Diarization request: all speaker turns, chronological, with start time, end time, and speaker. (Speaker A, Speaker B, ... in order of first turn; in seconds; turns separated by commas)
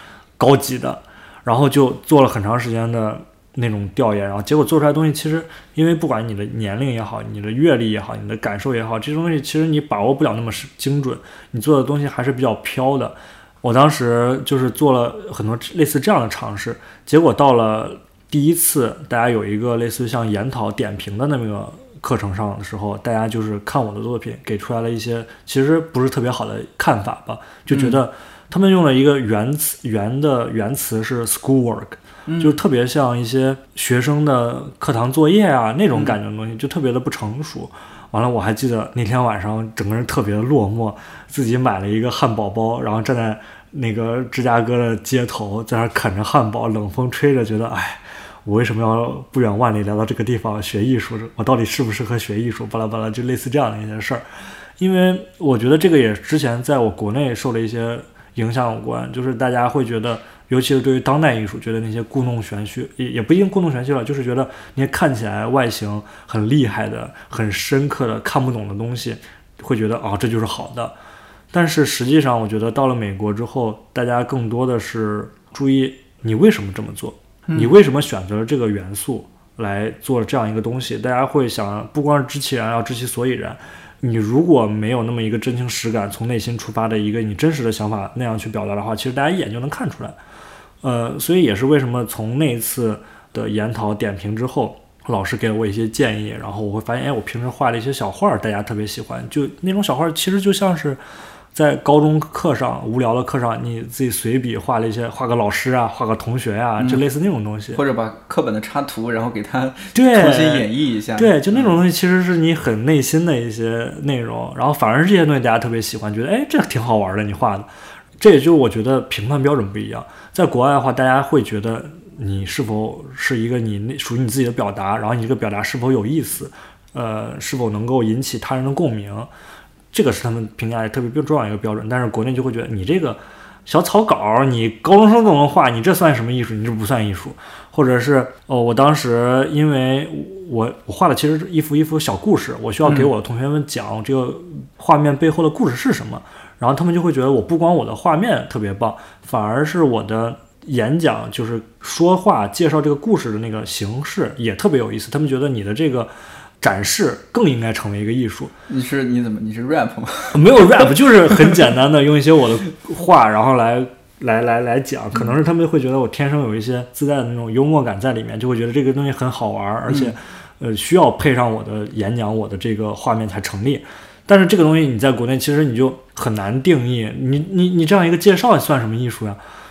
Speaker A: 0.4-54.2, Speaker B: 27.7-28.0, Speaker B: 32.3-32.6, Speaker A: 54.8-71.0, Speaker A: 71.5-90.2, Speaker B: 77.5-77.7, Speaker A: 90.8-101.0, Speaker A: 101.5-107.8, Speaker B: 107.7-111.8, Speaker A: 109.9-117.7, Speaker A: 118.2-129.3, Speaker A: 129.9-158.5, Speaker B: 142.8-143.1, Speaker B: 158.7-160.9, Speaker A: 160.3-179.4, Speaker B: 169.9-170.1